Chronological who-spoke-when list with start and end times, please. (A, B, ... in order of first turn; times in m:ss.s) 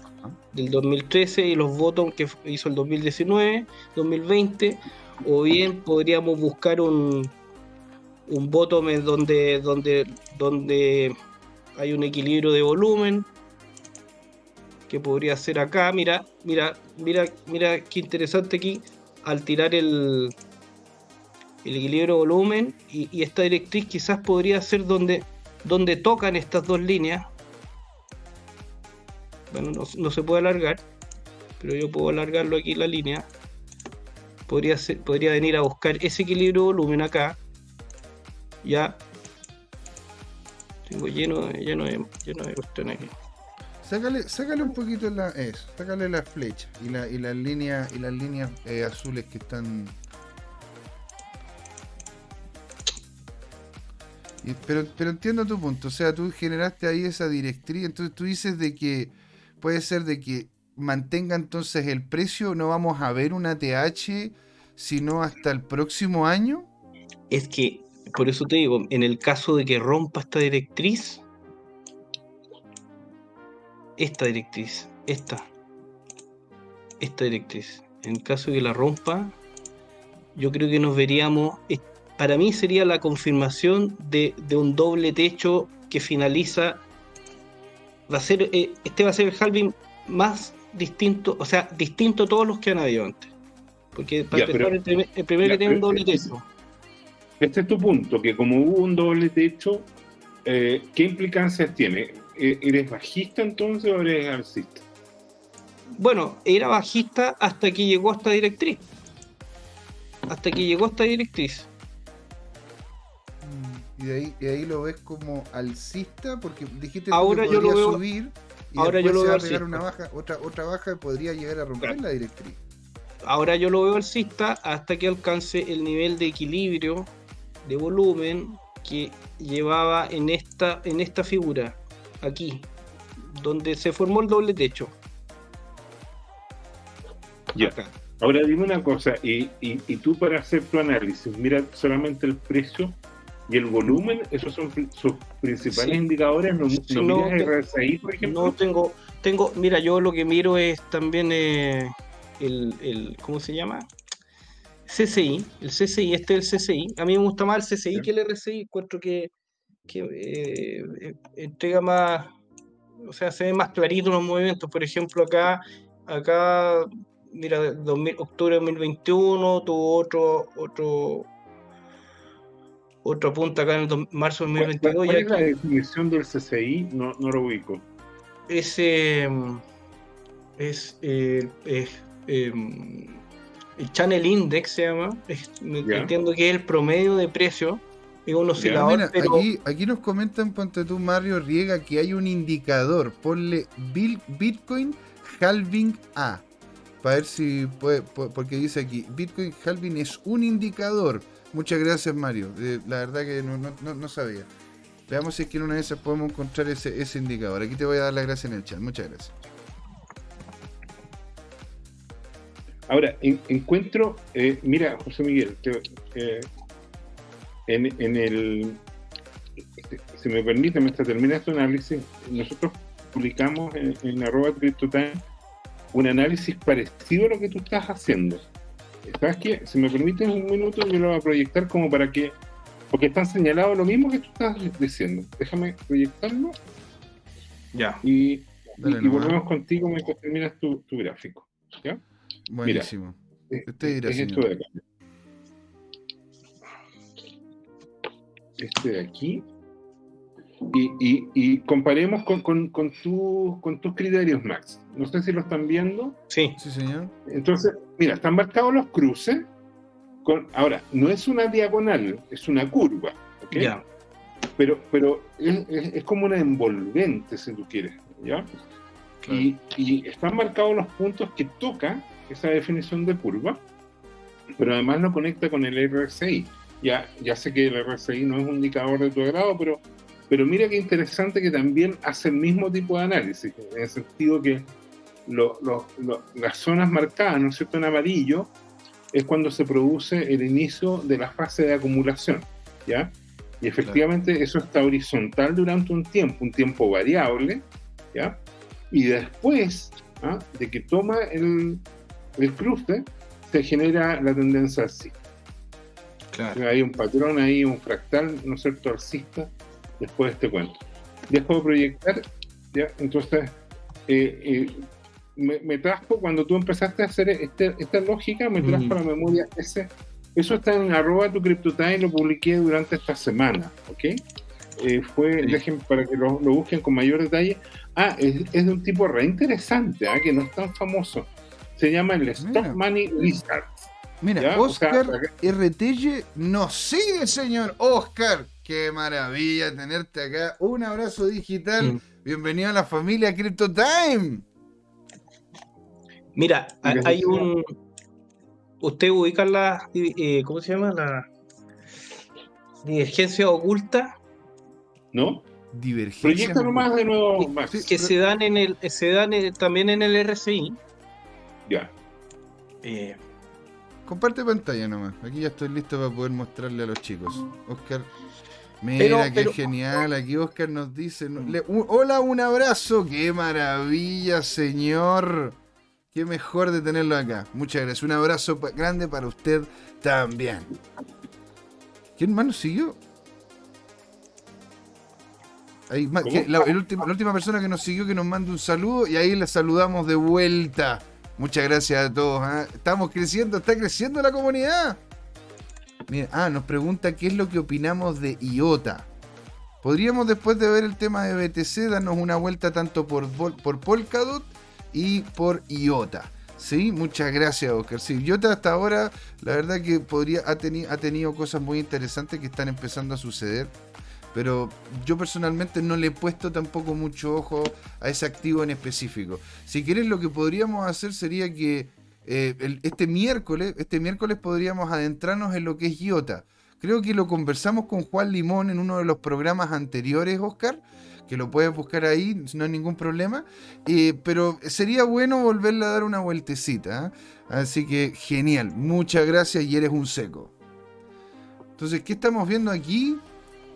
0:00.5-0:07.3 A
0:08.3-0:11.1 A
0:11.8-0:13.3 A
0:14.9-0:20.3 A
0:21.6-0:27.2 A
0:29.5-0:30.8 A
0:31.6-0:33.2 A
0:34.5-0:37.4 A
0:38.6-0:39.0 A
0:40.9-0:43.1 A
0:43.8-0:50.0 B
0:54.4-1:06.7 B
1:07.3-1:11.2 A
1:14.0-1:15.5 A
1:17.0-1:19.3 A
1:20.3-1:26.8 A
1:28.1-1:33.3 A
1:33.9-1:36.4 A
1:34.3-1:34.8 C
1:35.4-1:36.3 C
1:37.4-1:39.9 C
1:40.4-1:44.8 C
1:46.0-1:48.8 A
1:50.3-1:51.7 A
1:53.4-2:02.6 B
1:57.1-1:58.0 A
1:58.8-1:59.8 A
2:03.2-2:07.1 A
2:07.6-2:14.9 A
2:17.5-2:23.0 C
2:17.6-2:17.9 A
2:23.5-2:28.6 C
2:25.6-2:26.0 A
2:26.8-2:27.5 A
2:28.2-2:33.9 A
2:34.9-2:39.3 A
2:39.9-2:42.3 A
2:43.0-2:51.3 A
2:53.0-2:55.5 A
2:54.6-2:57.8 C
2:58.5-2:59.6 A
3:00.6-3:03.2 A
3:03.8-3:09.4 A
3:05.8-3:06.1 C
3:08.6-3:08.8 C
3:08.7-3:16.4 B
3:17.0-3:24.5 B
3:25.1-3:29.4 B
3:32.9-3:36.5 C
3:37.7-3:38.8 C
3:39.8-3:45.2 C
3:45.9-3:48.4 C
3:49.0-3:52.4 C
3:52.9-3:56.6 C
3:57.7-3:58.0 A
3:58.0-4:02.0 C
3:58.8-3:59.4 B
4:02.5-4:04.4 B
4:02.6-4:02.9 C
4:03.5-4:04.8 C
4:08.6-4:09.4 C
4:10.7-4:16.2 C
4:16.3-4:16.6 A
4:16.6-4:17.1 B
4:17.3-4:19.5 C
4:20.2-4:23.8 C
4:23.5-4:23.8 A
4:24.6-4:28.5 C
4:29.3-4:33.6 C
4:34.6-4:44.7 C
4:45.2-4:48.5 C
4:49.1-4:58.4 C
4:58.9-5:01.8 C
5:02.4-5:05.2 C
5:06.3-5:06.6 A
5:06.5-5:24.2 C
5:18.6-5:19.0 A
5:24.8-5:35.5 C
5:32.4-5:32.8 B
5:34.2-5:44.4 B
5:46.3-5:47.6 A
5:46.8-5:47.5 C
5:48.8-5:51.3 A
5:52.8-5:54.1 A
5:55.1-5:55.4 C
5:55.7-5:56.9 B
5:56.2-5:57.8 C
5:57.7-5:58.1 B
5:57.8-6:00.8 A
6:01.7-6:01.9 C
6:02.8-6:03.2 A
6:04.0-6:08.1 B
6:08.8-6:15.6 B
6:09.0-6:09.6 A
6:16.1-6:20.7 B
6:22.2-6:23.0 B
6:25.9-6:35.0 B
6:26.2-6:26.7 C
6:36.1-6:39.1 B
6:39.8-6:53.7 B
6:54.3-7:20.5 B
7:21.8-7:23.2 B